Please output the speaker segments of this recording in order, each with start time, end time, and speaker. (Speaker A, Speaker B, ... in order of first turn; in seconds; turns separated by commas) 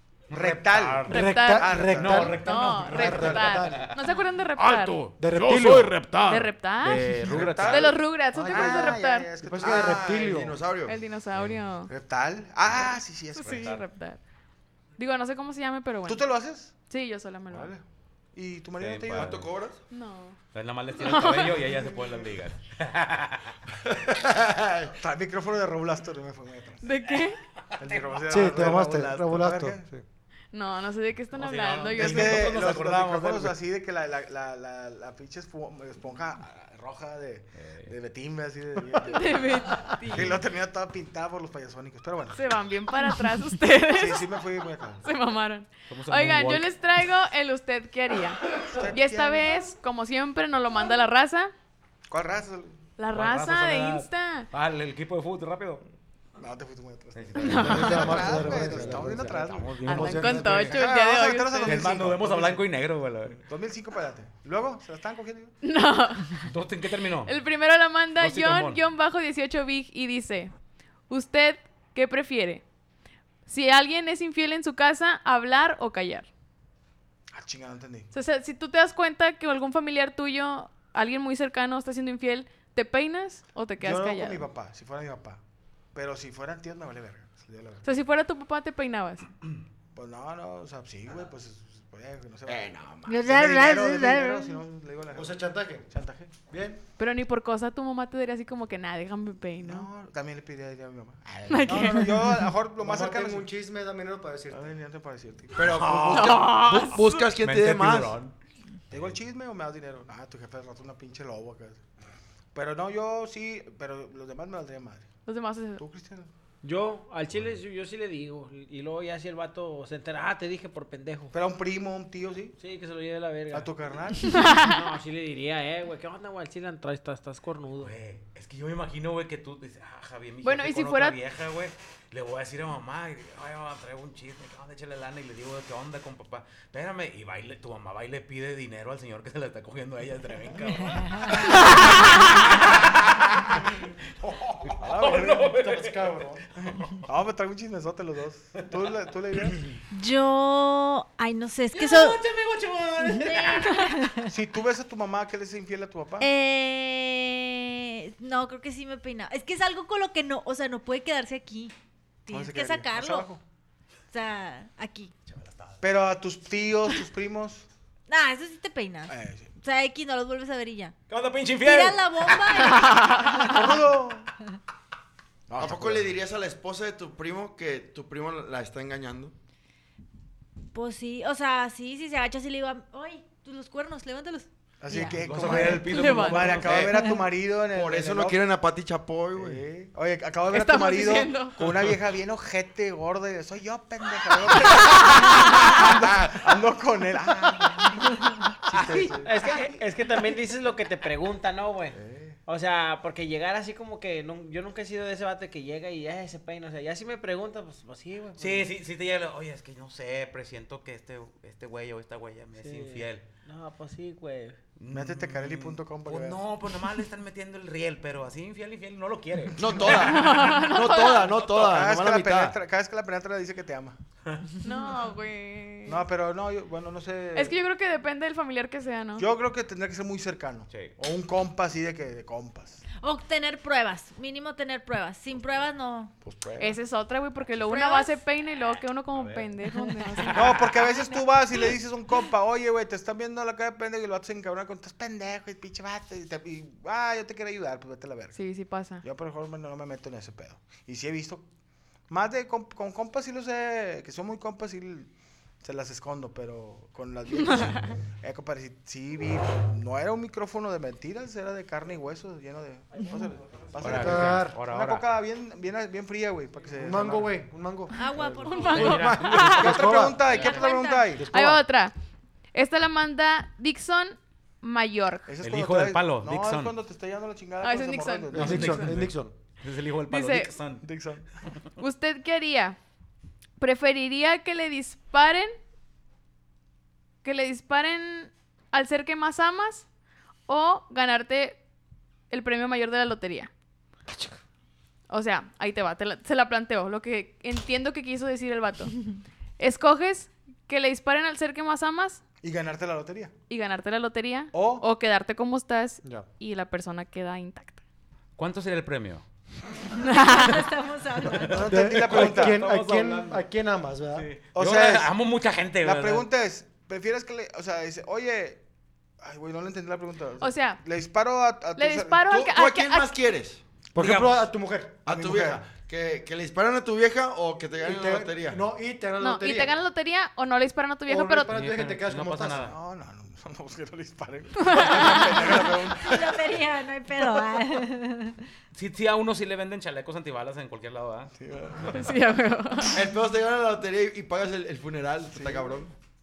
Speaker A: 0.3-2.4, Speaker B: 0.3-4.0, Speaker C: 1.1-1.8, Speaker D: 1.1-3.9, Speaker C: 2.4-5.0, Speaker B: 4.6-8.0, Speaker D: 5.2-6.1, Speaker C: 6.3-9.3, Speaker A: 7.1-10.2, Speaker D: 8.3-10.6, Speaker E: 9.6-11.0, Speaker C: 10.9-11.9, Speaker B: 11.3-11.6, Speaker A: 11.9-13.8, Speaker B: 12.7-13.8, Speaker C: 13.4-14.2, Speaker C: 15.0-16.2, Speaker A: 16.1-16.8, Speaker C: 16.9-17.7, Speaker A: 17.5-17.8, Speaker A: 18.3-19.4, Speaker B: 18.8-19.5, Speaker E: 19.1-19.8, Speaker C: 19.9-20.4, Speaker B: 20.5-23.5, Speaker C: 21.0-21.8, Speaker E: 24.3-24.9, Speaker A: 25.0-26.8, Speaker C: 26.8-27.4, Speaker A: 27.8-29.9, Speaker B: 27.8-28.7, Speaker D: 28.3-30.0, Speaker C: 30.5-32.5, Speaker B: 31.3-33.6, Speaker A: 31.9-42.5, Speaker B: 37.5-37.9, Speaker C: 39.1-40.4, Speaker C: 42.4-44.3, Speaker A: 43.9-45.1, Speaker C: 45.0-51.5, Speaker B: 45.9-46.7, Speaker A: 48.7-49.6, Speaker A: 52.1-52.8, Speaker C: 53.0-54.5, Speaker B: 53.1-55.8, Speaker A: 56.4-62.7, Speaker B: 57.1-60.8, Speaker C: 57.4-58.3, Speaker D: 57.6-60.5, Speaker C: 59.9-61.9, Speaker B: 61.6-63.4, Speaker A: 63.4-65.5, Speaker C: 65.6-66.5, Speaker B: 66.5-67.4, Speaker C: 67.2-70.5, Speaker B: 68.2-68.8, Speaker C: 71.1-72.6, Speaker C: 73.5-76.3, Speaker A: 77.3-78.1, Speaker C: 78.1-84.5, Speaker A: 83.8-85.4, Speaker A: 85.9-87.8, Speaker C: 87.8-89.3, Speaker A: 89.9-96.3, Speaker E: 92.6-93.1, Speaker F: 93.0-94.6, Speaker D: 95.1-95.8, Speaker D: 96.5-96.8, Speaker C: 97.0-99.9, Speaker A: 99.6-103.5, Speaker C: 101.5-102.4, Speaker D: 101.7-102.1, Speaker D: 102.8-104.7, Speaker A: 104.5-105.8, Speaker E: 105.5-108.2, Speaker B: 105.7-108.3, Speaker C: 106.1-107.2, Speaker A: 108.9-111.8, Speaker A: 112.5-115.1, Speaker C: 115.3-115.8, Speaker A: 115.8-116.3, Speaker G: 116.6-121.3, Speaker A: 121.3-122.6, Speaker G: 122.6-123.7, Speaker A: 123.5-124.2, Speaker C: 124.2-124.8, Speaker G: 124.6-127.9, Speaker B: 127.8-143.2, Speaker C: 130.4-131.2, Speaker B: 144.6-146.2, Speaker A: 144.8-145.5, Speaker D: 145.6-146.4, Speaker A: 146.7-149.6, Speaker F: 149.9-152.2, Speaker B: 151.7-153.9, Speaker F: 153.1-154.3, Speaker A: 154.3-156.3, Speaker F: 156.2-161.7, Speaker F: 162.3-163.3, Speaker A: 162.3-163.4, Speaker F: 164.1-165.1, Speaker B: 165.3-165.8, Speaker A: 165.8-167.7, Speaker F: 168.1-170.9, Speaker A: 169.1-169.5, Speaker B: 171.1-172.3, Speaker F: 171.6-173.3, Speaker C: 172.8-173.2, Speaker A: 173.4-174.3, Speaker A: 175.5-176.2, Speaker E: 175.6-179.3, Speaker F: 180.7-185.2, Speaker A: 184.8-188.4, Speaker B: 185.0-186.9, Speaker C: 185.5-186.7, Speaker E: 187.7-189.6, Speaker A: 189.3-198.0, Speaker C: 190.5-191.6, Speaker A: 198.7-199.8, Speaker G: 199.0-208.7, Speaker A: 201.9-202.4, Speaker B: 208.4-213.3, Speaker G: 212.6-214.6, Speaker B: 214.8-220.1, Speaker A: 214.9-216.4, Speaker E: 219.6-222.6, Speaker A: 219.6-220.3, Speaker C: 219.9-221.4, Speaker A: 221.4-224.0, Speaker C: 224.6-226.0, Speaker A: 225.9-227.6, Speaker C: 227.3-229.3, Speaker A: 229.2-232.8, Speaker B: 230.7-230.9, Speaker F: 233.0-236.2, Speaker A: 236.2-236.8, Speaker C: 236.6-240.6, Speaker F: 237.7-238.2, Speaker B: 239.1-239.6, Speaker A: 240.3-248.4, Speaker F: 240.9-241.2, Speaker C: 248.3-249.0, Speaker A: 249.0-251.5, Speaker A: 252.1-255.1, Speaker A: 255.6-267.4, Speaker C: 257.4-257.9, Speaker B: 263.8-265.1, Speaker D: 263.8-264.6, Speaker D: 266.7-270.3, Speaker F: 267.9-269.2, Speaker C: 268.4-269.8, Speaker B: 268.7-270.5, Speaker A: 269.4-271.4, Speaker F: 270.2-271.1, Speaker D: 271.1-271.6, Speaker C: 271.3-271.9, Speaker C: 272.5-275.3, Speaker A: 275.3-278.9, Speaker B: 275.4-276.7, Speaker C: 277.6-278.4, Speaker D: 278.3-279.3, Speaker B: 278.3-280.9, Speaker C: 280.1-280.5, Speaker A: 280.8-281.3, Speaker C: 281.8-282.8, Speaker C: 283.6-285.6, Speaker C: 287.2-289.9, Speaker C: 290.5-291.6, Speaker C: 292.3-293.5, Speaker C: 295.1-299.0, Speaker C: 299.6-302.2, Speaker A: 302.4-303.3, Speaker C: 303.5-307.8, Speaker A: 304.5-304.9, Speaker B: 308.4-309.2, Speaker F: 310.0-311.6, Speaker C: 310.1-310.6, Speaker B: 311.3-313.4, Speaker D: 311.4-314.3, Speaker A: 311.5-312.6, Speaker B: 314.1-316.3, Speaker A: 314.6-315.1, Speaker A: 315.8-318.6, Speaker A: 319.2-322.3, Speaker C: 320.4-320.8, Speaker C: 321.8-323.1, Speaker E: 322.3-323.6, Speaker D: 323.9-325.0, Speaker B: 324.0-324.3, Speaker E: 325.1-328.6, Speaker A: 325.1-325.7, Speaker D: 327.8-329.8, Speaker C: 329.2-331.6, Speaker D: 331.1-332.7, Speaker B: 331.5-332.8, Speaker A: 332.6-336.4, Speaker C: 334.6-335.5, Speaker F: 335.8-338.4, Speaker B: 338.7-342.1, Speaker A: 341.4-342.1, Speaker C: 341.9-343.0, Speaker E: 342.9-345.9, Speaker A: 345.3-345.8